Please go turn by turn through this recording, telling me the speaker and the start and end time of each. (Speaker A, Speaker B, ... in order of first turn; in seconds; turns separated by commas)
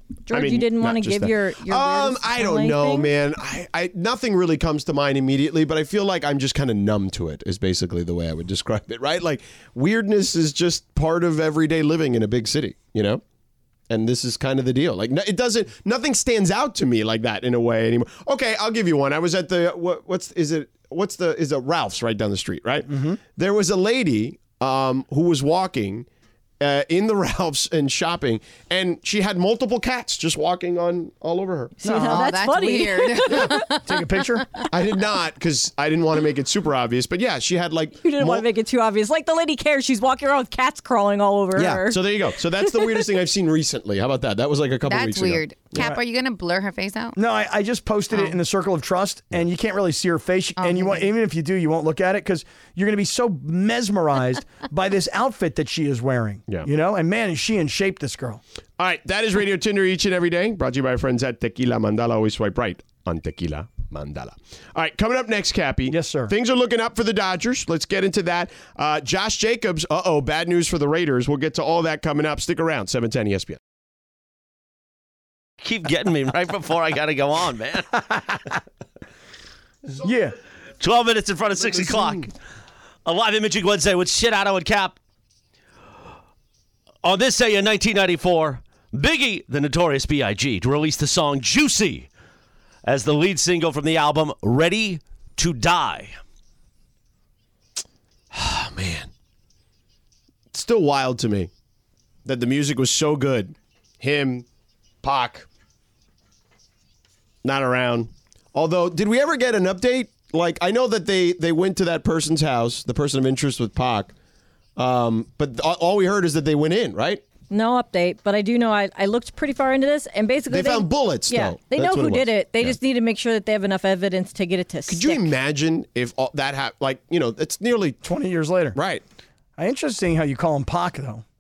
Speaker A: 0.3-3.1, Speaker B: 0.3-13.2, Speaker B: 13.9-26.1, Speaker C: 22.9-23.2, Speaker B: 26.6-31.8, Speaker A: 31.8-33.7, Speaker C: 31.8-32.2, Speaker D: 31.9-34.6, Speaker C: 33.9-34.5, Speaker B: 34.7-38.5, Speaker A: 38.0-43.0, Speaker B: 41.5-45.9, Speaker D: 44.8-47.2, Speaker C: 47.1-58.4, Speaker D: 50.6-51.1, Speaker B: 58.8-73.6, Speaker C: 65.9-66.3, Speaker E: 75.6-78.2, Speaker C: 80.0-80.3, Speaker E: 80.8-82.3, Speaker B: 81.6-82.3, Speaker E: 83.0-85.0, Speaker E: 87.0-92.1, Speaker E: 92.8-96.2, Speaker B: 98.3-99.1, Speaker B: 100.5-101.5, Speaker B: 102.2-104.5, Speaker B: 105.0-105.5, Speaker B: 107.4-114.1, Speaker B: 114.8-117.2, Speaker A: 117.5-125.3, Speaker B: 120.5-122.8, Speaker B: 124.9-128.0, Speaker C: 128.0-128.8, Speaker B: 128.8-129.0, Speaker C: 129.6-131.2